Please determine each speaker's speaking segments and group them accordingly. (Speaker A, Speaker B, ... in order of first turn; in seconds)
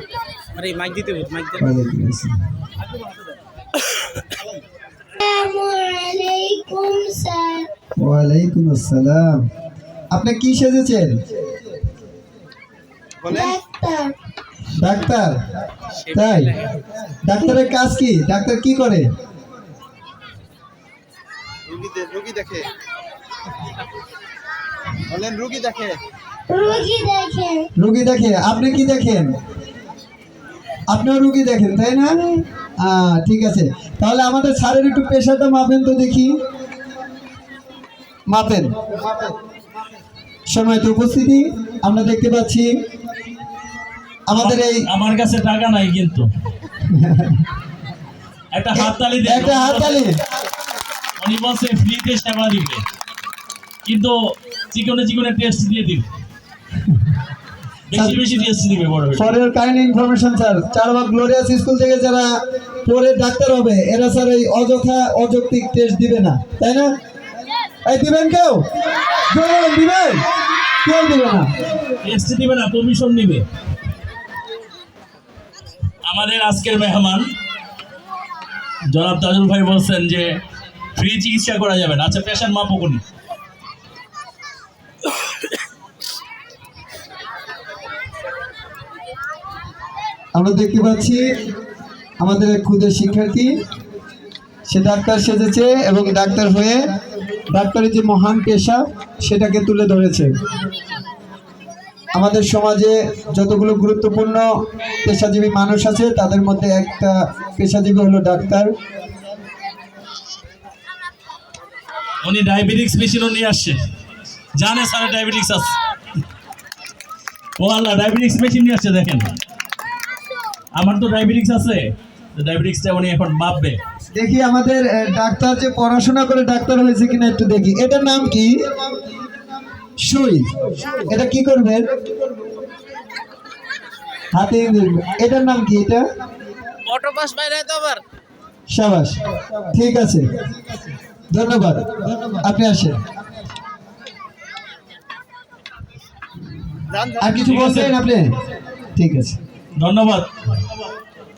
Speaker A: 0.5-1.6, 16.0-16.7, 136.8-138.0
Speaker B: 1.6-2.3, 8.0-9.3, 10.1-11.1, 14.8-15.3, 16.1-16.5, 17.2-19.1, 27.8-29.3, 30.9-36.4, 38.3-38.7, 40.5-42.7, 44.3-44.8, 46.9-47.5, 48.7-50.2, 59.1-62.3, 62.8-66.9, 67.8-68.6, 69.3-70.2, 70.8-71.5, 90.3-91.3, 92.2-93.5, 94.7-96.8, 97.5-100.3, 102.1-104.4, 105.0-108.7, 124.1-128.5, 130.0-131.8, 134.3-136.0, 138.7-139.2, 139.7-140.2, 141.3-143.0, 147.2-148.3, 148.9-149.4
Speaker C: 5.2-7.7, 13.2-14.1, 26.5-27.7
Speaker D: 21.6-22.7, 25.1-26.0
Speaker E: 44.3-46.3, 48.5-50.0, 51.2-52.8, 53.8-54.1, 54.7-56.0, 57.9-59.3, 72.0-73.4, 76.0-77.3, 78.9-80.4, 80.9-83.0, 112.2-113.8, 114.5-115.8, 117.6-119.3, 120.8-123.8, 147.3-147.9, 149.8-150.3